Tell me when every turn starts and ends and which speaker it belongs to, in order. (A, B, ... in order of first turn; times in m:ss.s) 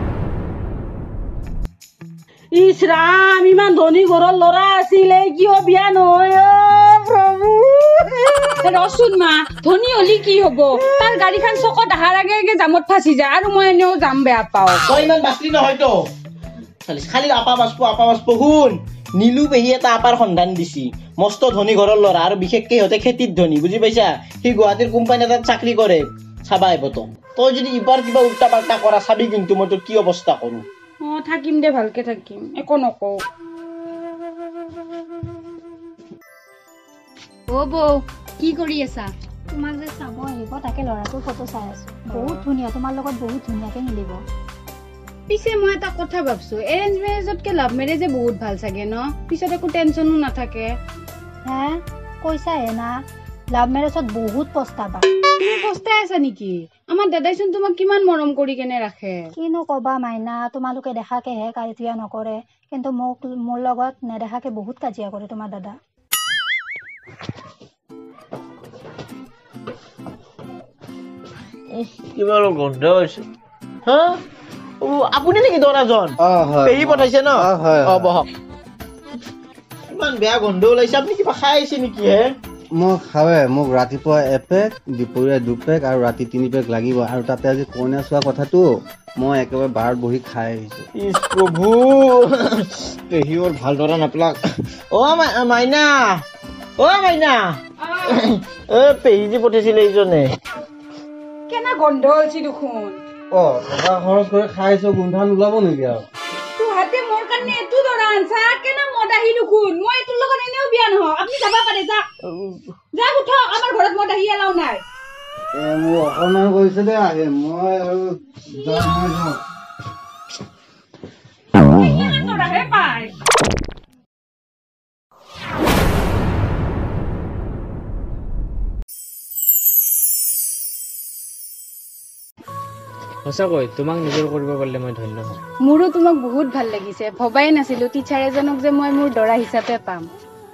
0:02.5-0:08.6 A
0:08.6-0:14.8 B
0:14.9-0:16.0 C
0:16.9-0:30.6 C
0:31.0-0:33.2 B
0:37.5-0:39.1 B
0:39.5-0:44.2 D
0:45.3-0:50.7 B
0:51.4-0:53.0 D
0:53.5-0:55.1 D
0:55.4-0:59.3 B
0:59.4-1:05.8 D
1:11.8-1:13.2 C
1:13.9-1:14.2 C
1:14.8-1:18.3 C
1:16.2-1:18.1 E
1:19.9-1:22.3 C
1:22.8-1:28.6 E
1:29.2-1:30.9 E
1:31.0-1:34.4 C
1:34.9-1:36.2 C
1:36.8-1:40.3 C
1:37.8-1:38.2 B
1:41.5-1:43.0 B
1:43.3-1:46.0 E
1:46.6-1:52.1 B
1:52.3-1:52.6 C
1:52.9-1:54.8 B
1:55.6-1:59.4 E
2:01.7-2:02.9 A
2:02.7-2:03.1 B
2:13.2-2:15.4 F
2:15.6-2:20.1 B